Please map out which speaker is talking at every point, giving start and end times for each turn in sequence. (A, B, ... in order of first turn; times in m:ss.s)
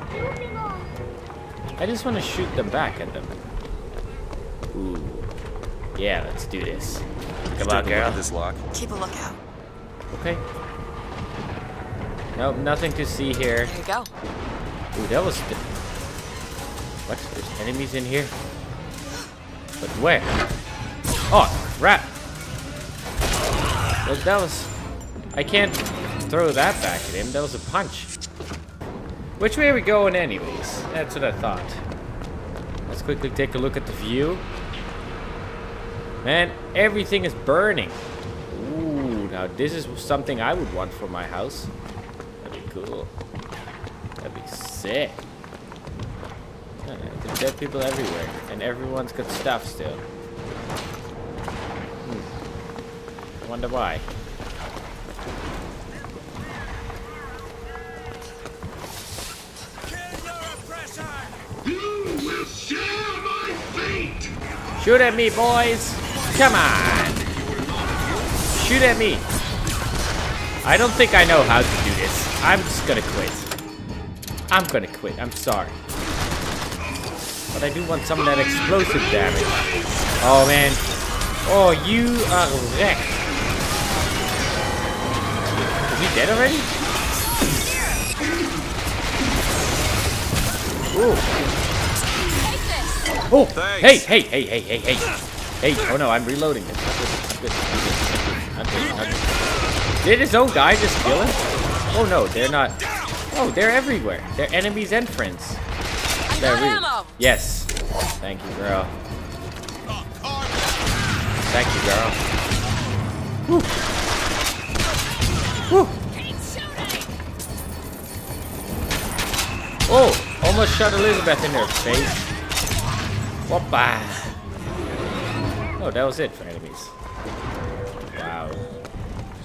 0:01.8-0:03.4 A
0:04.7-0:05.3 A
0:05.9-0:08.2 A
0:07.5-0:08.6 B
0:08.7-0:09.4 C
0:10.1-0:10.4 A
0:12.3-0:13.7 A
0:13.6-0:14.1 C
0:14.9-0:15.6 A
0:17.1-0:18.3 A
0:19.8-0:20.4 A
0:21.3-0:22.2 A
0:24.0-0:24.7 A
0:25.3-0:28.1 A
0:29.4-0:31.8 A
0:32.9-0:34.4 A
0:36.2-0:41.7 A
0:42.4-0:43.1 A
0:44.2-0:45.2 A
0:46.8-0:50.0 A
0:52.0-0:52.3 A
0:53.4-0:54.0 A
1:02.2-1:03.2 B
1:04.8-1:07.3 A
1:08.5-1:09.3 A
1:10.6-1:13.5 A
1:14.5-1:15.8 A
1:17.5-1:19.7 A
1:20.2-1:20.8 A
1:21.4-1:23.2 A
1:25.9-1:26.7 A
1:30.9-1:31.3 A
1:32.4-1:33.0 C
1:33.3-1:39.2 A
1:33.5-1:34.1 B
1:40.0-1:42.8 A
1:43.3-1:45.6 A
1:46.3-1:47.2 C
1:46.4-1:48.9 A
1:51.4-1:52.3 A
1:53.5-1:53.7 A
1:55.6-1:56.0 A
1:56.0-1:57.1 C
1:59.9-2:02.2 A
2:03.5-2:04.4 A
2:05.8-2:06.9 A
2:08.1-2:08.6 A